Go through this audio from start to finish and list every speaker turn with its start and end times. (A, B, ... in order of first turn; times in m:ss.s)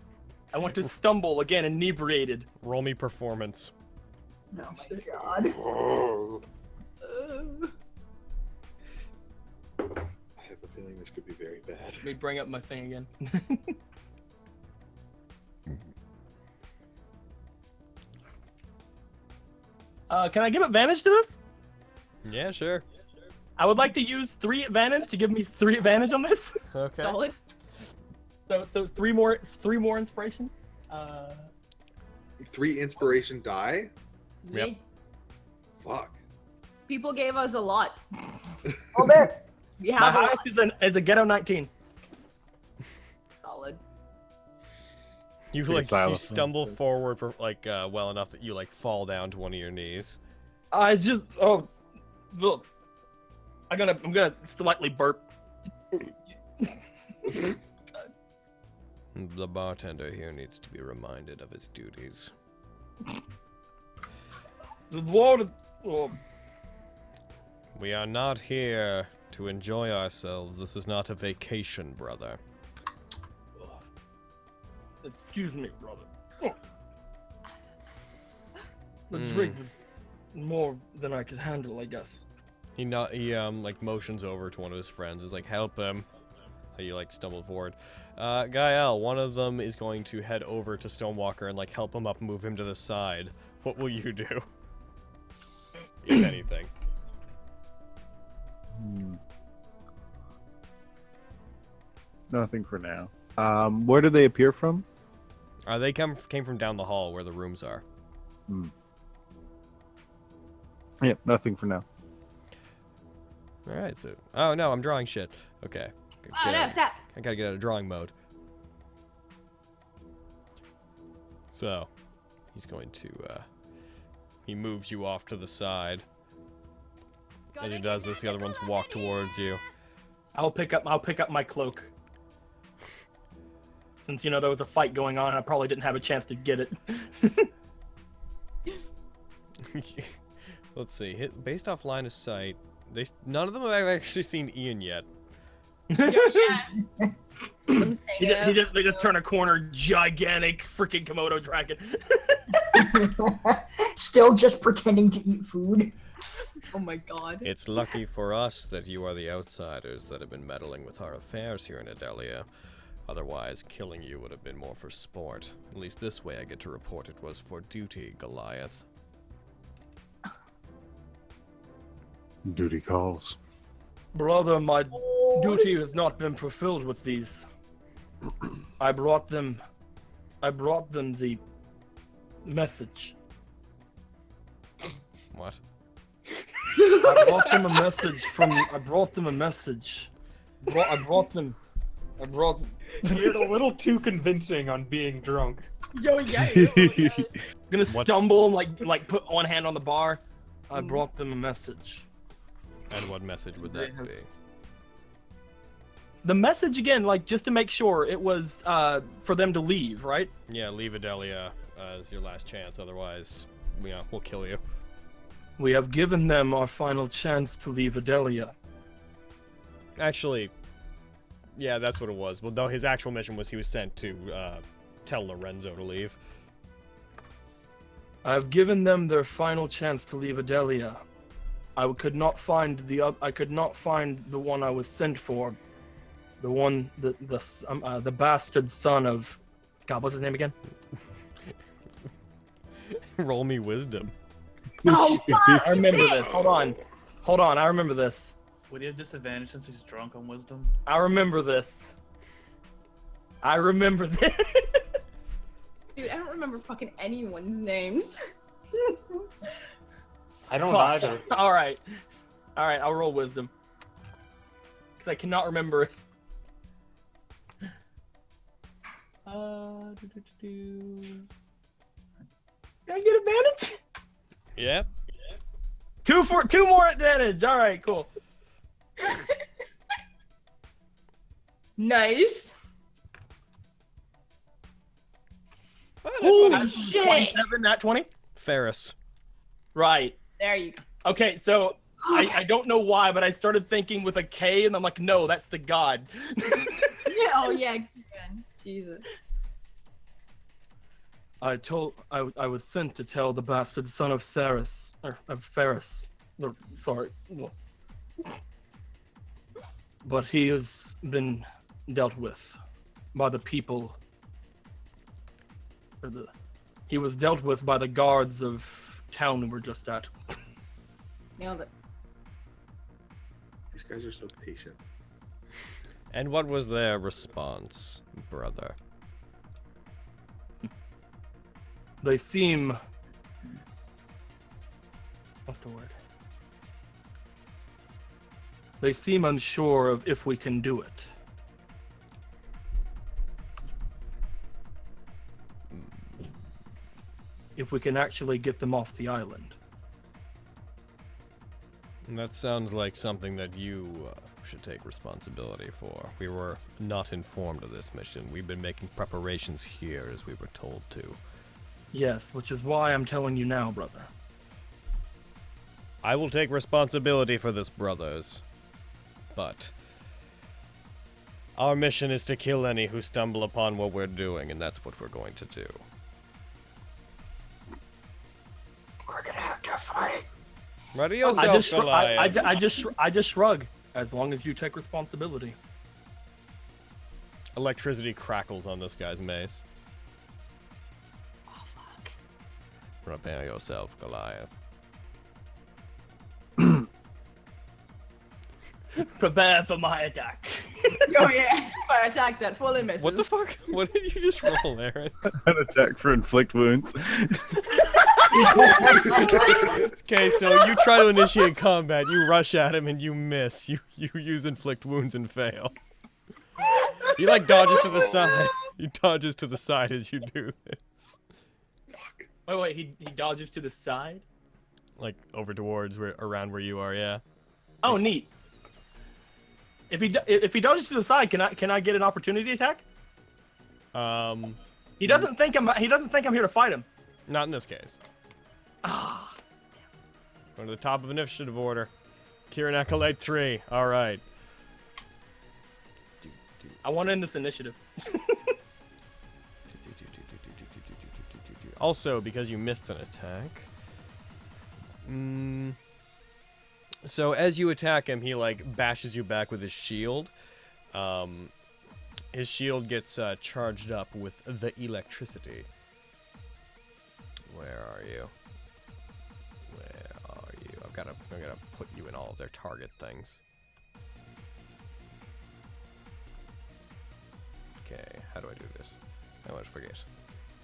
0:00.5-0:02.5 A
0:02.6-0:03.7 B
0:04.5-0:05.6 C
0:04.8-0:05.0 D
0:05.6-0:06.4 E
0:07.0-0:07.7 D
0:10.4-0:12.1 E
0:12.0-0:13.7 A
0:20.1-0:21.4 A
0:22.2-0:22.8 B
0:23.6-0:26.6 A
0:26.7-0:27.2 B
0:27.0-0:27.3 D
0:28.5-0:31.5 A
0:32.4-0:33.9 E
0:34.4-0:34.8 D
0:35.8-0:36.2 E
0:36.9-0:38.0 D
0:38.9-0:39.4 C
0:39.8-0:40.5 D
0:40.0-0:41.7 A
0:43.4-0:43.8 D
0:45.5-0:50.2 B
0:45.7-0:46.7 F
0:50.7-0:51.7 A
0:52.3-0:52.6 A
0:53.7-0:55.2 A
0:59.1-1:02.3 B
1:04.9-1:06.2 A
1:07.8-1:12.4 B
1:15.0-1:16.6 A
1:19.1-1:19.8 A
1:19.1-1:19.6 B
1:20.3-1:22.2 A
1:22.8-1:26.0 B
1:26.8-1:34.5 B
1:36.0-1:36.7 B
1:38.8-1:39.2 F
1:42.3-1:44.8 F
1:45.7-1:47.8 B
1:51.0-1:51.8 F
1:53.6-1:58.1 B
1:56.3-1:57.0 D
2:01.5-2:01.9 B
2:02.5-2:03.4 B
2:04.4-2:06.0 B
2:07.6-2:08.4 D
2:07.6-2:09.6 B
2:10.3-2:11.9 A
2:14.0-2:17.5 A
2:19.6-2:20.2 B
2:20.7-2:25.0 B
2:25.9-2:26.6 A
2:26.0-2:26.8 D
2:26.8-2:27.1 C
2:27.7-2:29.1 D
2:27.7-2:33.0 A
2:32.7-2:35.9 C
2:36.7-2:37.5 D
2:37.4-2:42.4 B
2:43.1-2:48.8 B
2:52.4-2:53.4 F
2:54.1-2:57.4 A
2:55.0-2:55.7 D
2:58.8-2:59.6 A
3:00.4-3:01.4 A
3:02.4-3:03.1 A
3:05.3-3:05.6 B
3:06.8-3:07.5 D
3:07.0-3:10.1 A
3:10.6-3:11.6 A
3:12.2-3:13.5 A
3:13.0-3:15.7 G
3:15.9-3:17.3 D
3:16.3-3:17.3 F
3:17.7-3:22.0 A
3:17.8-3:18.1 B
3:20.7-3:21.0 D
3:22.9-3:24.3 B
3:23.6-3:24.0 H
3:26.2-3:30.3 A
3:30.5-3:34.6 B
3:35.6-3:38.5 A
3:40.0-3:40.5 B
3:41.6-3:46.2 B
3:48.2-3:51.0 A
3:51.8-3:55.6 A
3:56.4-4:00.5 A
4:03.0-4:04.1 B
4:04.8-4:05.8 F
4:04.8-4:06.5 D
4:05.6-4:08.3 A
4:08.7-4:10.7 H
4:10.8-4:11.9 A
4:13.4-4:14.8 A
4:15.9-4:18.2 D
4:20.5-4:21.3 G
4:20.6-4:21.8 A
4:22.6-4:23.5 A
4:25.0-4:25.9 A
4:29.2-4:31.2 A
4:32.9-4:33.8 A
4:34.6-4:34.9 B
4:36.0-4:38.1 A
4:41.8-4:42.5 D
4:46.0-4:46.9 B
4:46.2-4:48.1 A
4:46.2-4:47.4 D
4:48.4-4:48.9 B
4:49.7-4:50.2 A
4:50.4-4:50.8 D
4:51.0-4:57.1 A
4:52.1-4:52.4 D
4:57.0-4:59.0 D
5:01.4-5:07.5 A
5:10.0-5:12.6 A
5:13.1-5:14.0 A
5:16.0-5:16.3 A
5:16.9-5:20.1 A
5:21.4-5:21.7 D
5:23.7-5:24.8 E
5:26.1-5:28.8 B
5:32.0-5:32.8 A
5:35.5-5:35.9 A
5:38.8-5:41.1 A
5:47.6-5:49.6 A
5:52.1-6:01.2 B
6:01.9-6:04.1 A
6:06.0-6:08.4 B
6:09.3-6:09.7 B
6:11.6-6:15.8 B
6:19.1-6:20.2 C
6:20.9-6:22.6 B
6:21.3-6:25.6 A
6:27.6-6:29.6 B
6:31.5-6:32.1 D
6:33.0-6:34.5 B
6:39.0-6:41.3 A
6:41.0-6:43.3 D
6:43.0-6:45.2 B
6:45.3-6:47.7 F
6:48.2-6:49.8 D
6:48.3-6:49.7 F
6:49.6-6:55.7 B
6:57.1-7:01.2 B
7:01.9-7:02.3 E
7:02.4-7:04.2 A
7:05.0-7:07.2 B
7:07.8-7:08.3 A
7:07.8-7:08.1 B
7:09.9-7:12.8 A
7:13.9-7:15.3 B
7:15.0-7:16.8 A
7:17.3-7:18.0 B
7:18.8-7:19.4 A
7:20.6-7:21.9 B
7:22.5-7:24.2 B
7:26.2-7:26.8 B
7:26.8-7:28.5 A
7:29.7-7:33.7 B
7:35.0-7:35.8 B
7:37.0-7:40.3 B
7:40.9-7:41.5 B
7:42.3-7:45.7 B
7:47.5-7:48.3 B
7:49.7-7:53.4 B
7:57.8-8:00.0 B